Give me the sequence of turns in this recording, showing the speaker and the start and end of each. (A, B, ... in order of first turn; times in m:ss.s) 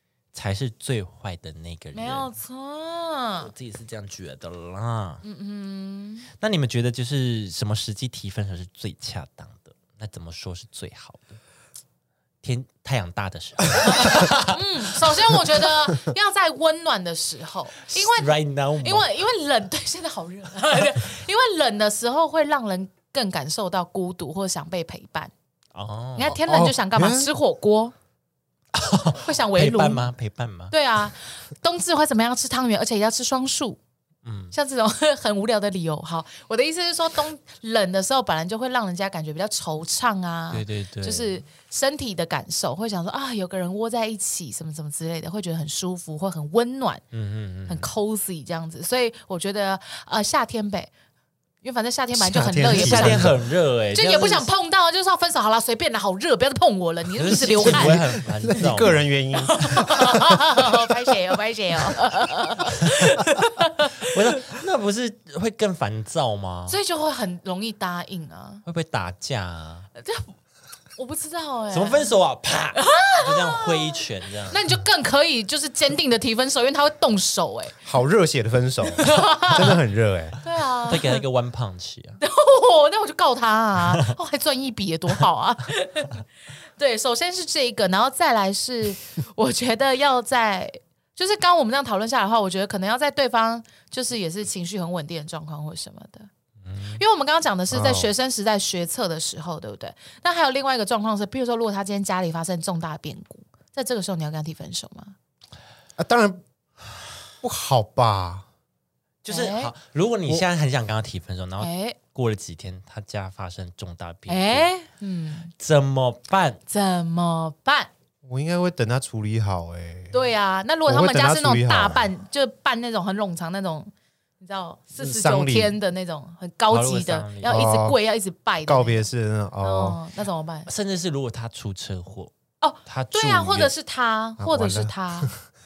0:00.3-0:02.3 A
0:01.9-0:03.5 B
0:03.4-0:05.2 A
0:05.2-0:06.3 B
0:06.4-0:11.4 A
0:12.4-0:15.4 A
0:13.9-0:25.3 B
0:17.9-0:19.1 A
0:25.7-0:26.4 A
0:26.2-0:27.9 B
0:26.4-0:27.3 C
0:28.7-0:30.8 A
0:29.2-0:30.1 B
0:30.7-0:33.8 B
0:34.2-0:34.6 A
0:34.5-0:47.0 B
0:40.5-0:41.4 A
0:47.1-0:47.9 A
0:47.7-0:50.9 B
0:51.6-0:53.4 B
0:52.1-0:53.4 C
0:52.7-0:54.5 A
0:53.9-0:58.2 B
0:57.1-0:59.1 A
0:57.6-1:00.8 C
0:59.4-1:04.2 B
1:03.9-1:06.8 A
1:06.7-1:08.6 B
1:08.6-1:09.9 A
1:10.0-1:10.4 B
1:11.0-1:12.2 B
1:11.7-1:14.6 A
1:12.8-1:17.8 B
1:17.8-1:20.4 C
1:19.0-1:19.8 B
1:20.4-1:21.2 B
1:20.8-1:22.2 A
1:22.2-1:26.2 B
1:26.8-1:36.3 B
1:36.6-1:37.0 A
1:37.0-1:45.2 B
1:37.7-1:38.1 C
1:46.0-1:46.4 C
1:47.4-1:48.5 C
1:49.2-1:54.7 A
1:49.3-1:49.7 B
1:51.6-1:52.0 B
1:54.3-1:55.5 B
1:55.6-1:56.6 A
1:56.7-1:57.9 B
1:58.2-2:00.2 C
2:00.1-2:09.1 B
2:00.9-2:02.1 C
2:05.0-2:05.8 C
2:06.7-2:07.7 A
2:07.4-2:08.0 C
2:08.6-2:10.0 C
2:09.6-2:10.7 B
2:10.7-2:12.3 A
2:12.6-2:15.3 B
2:12.8-2:13.7 A
2:14.4-2:15.4 C